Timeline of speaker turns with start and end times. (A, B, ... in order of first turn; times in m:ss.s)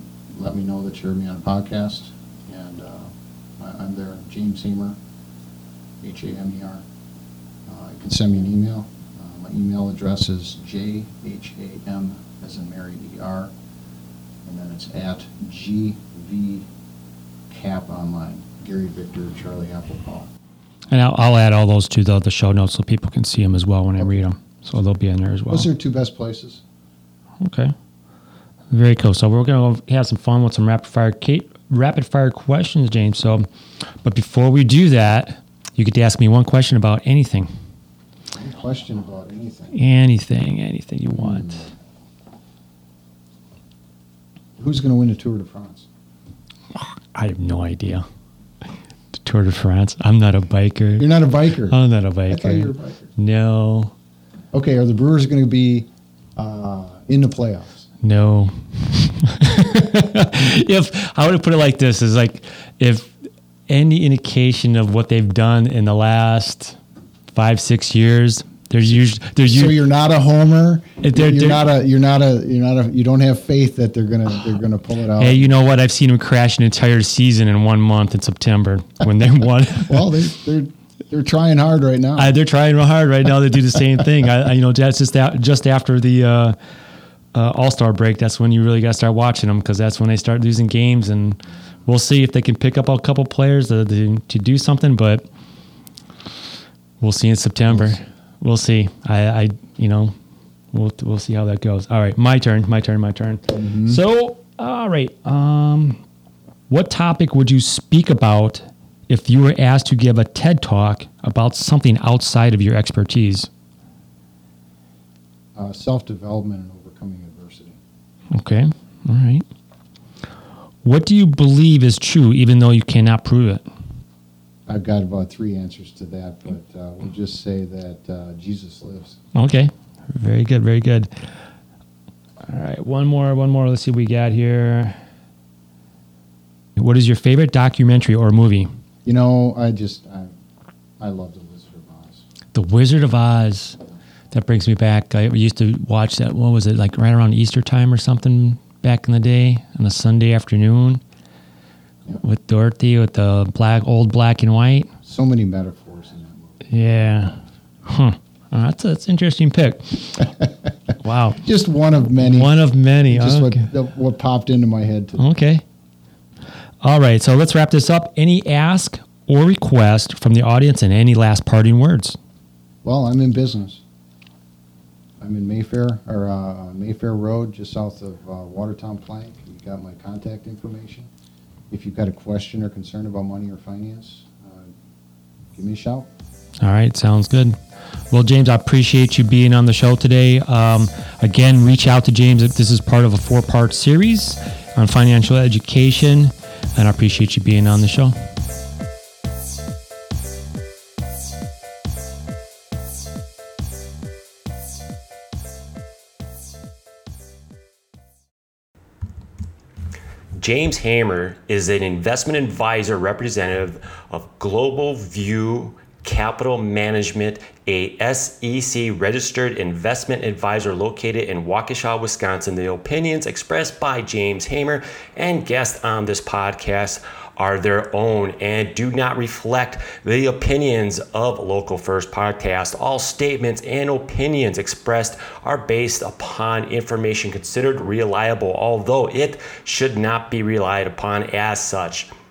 0:00.3-0:05.0 A
0:06.0-0:06.8 A
0:07.7-0:13.5 A
0:14.4-0:16.7 A
0:17.5-0:20.3 A
0:20.9-0:25.7 B
0:25.5-0:26.6 A
0:27.4-0:27.7 B
0:28.7-0:33.5 B
0:34.0-0:37.5 B
0:38.4-0:39.8 A
0:39.7-0:41.7 B
0:41.1-0:41.7 A
0:44.6-0:45.9 A
0:46.8-0:48.1 B
0:49.2-0:51.1 B
0:51.0-0:51.8 A
0:51.7-0:53.9 B
0:52.3-0:53.1 A
0:54.5-0:57.9 A
0:58.0-1:03.2 B
1:03.7-1:06.8 B
1:07.3-1:09.8 B
1:09.5-1:15.5 A
1:11.0-1:11.7 B
1:15.2-1:20.1 B
1:19.8-1:22.4 A
1:22.2-1:26.6 B
1:27.3-1:35.3 B
1:37.0-1:40.2 B
1:40.7-1:46.0 B
1:43.5-1:44.0 A
1:46.7-1:53.5 B
1:55.6-1:57.8 A
1:58.3-1:59.4 B
2:00.8-2:03.7 B
2:04.7-2:09.2 A
2:09.4-2:11.4 B
2:12.4-2:15.0 B
2:16.8-2:18.7 B
2:19.0-2:20.3 A
2:21.0-2:22.2 A
2:22.5-2:23.8 B
2:24.3-2:31.0 B
2:32.2-2:34.9 B
2:35.0-2:36.7 A
2:36.7-2:40.3 B
2:41.0-2:41.4 B
2:41.4-2:45.2 A
2:42.2-2:43.7 B
2:45.2-2:45.6 B
2:46.8-2:52.2 B
2:52.8-2:53.8 A
2:55.2-3:01.1 A
3:01.7-3:04.7 A
3:05.6-3:06.1 A
3:06.6-3:07.6 B
3:08.1-3:18.2 B
3:30.4-4:02.1 C